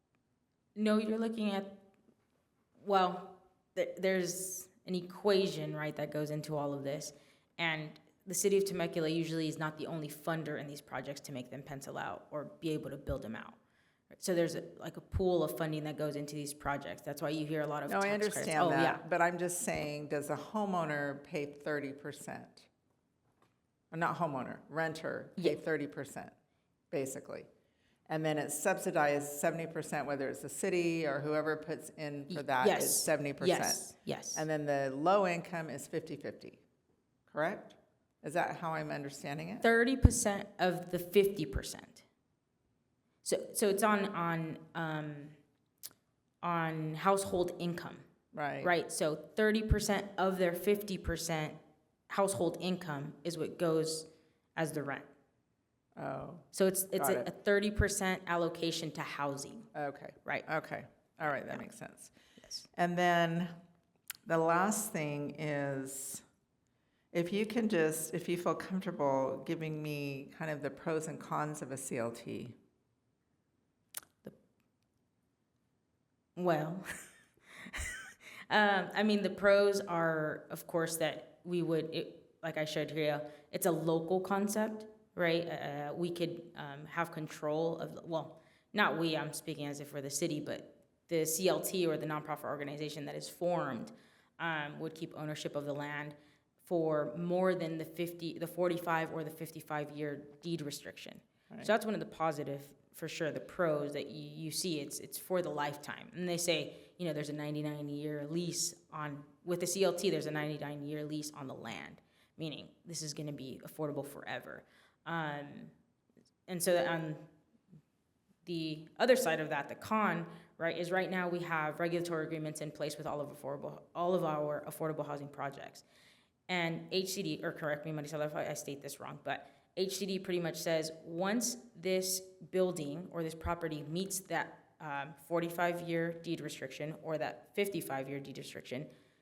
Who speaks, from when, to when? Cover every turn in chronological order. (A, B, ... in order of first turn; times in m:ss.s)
0:00.8-0:01.8 A
0:02.8-0:13.6 A
0:14.1-0:19.0 A
0:17.9-0:22.7 B
0:23.9-0:26.3 B
0:26.9-0:27.5 B
0:28.1-0:36.6 B
0:32.3-0:34.4 A
0:37.3-0:39.7 B
0:39.6-0:42.0 A
0:43.2-0:45.4 A
0:46.4-0:48.0 A
0:48.3-0:48.7 B
0:48.6-0:51.6 A
0:52.1-0:55.1 A
0:56.0-0:57.3 B
0:56.5-0:59.7 A
0:59.7-1:02.1 B
1:01.3-1:01.6 A
1:02.7-1:03.5 B
1:04.2-1:06.2 B
1:07.1-1:12.5 B
1:16.4-1:16.8 A
1:17.6-1:55.7 A
1:56.5-1:57.3 A
1:58.4-2:05.8 A
2:06.5-2:18.9 A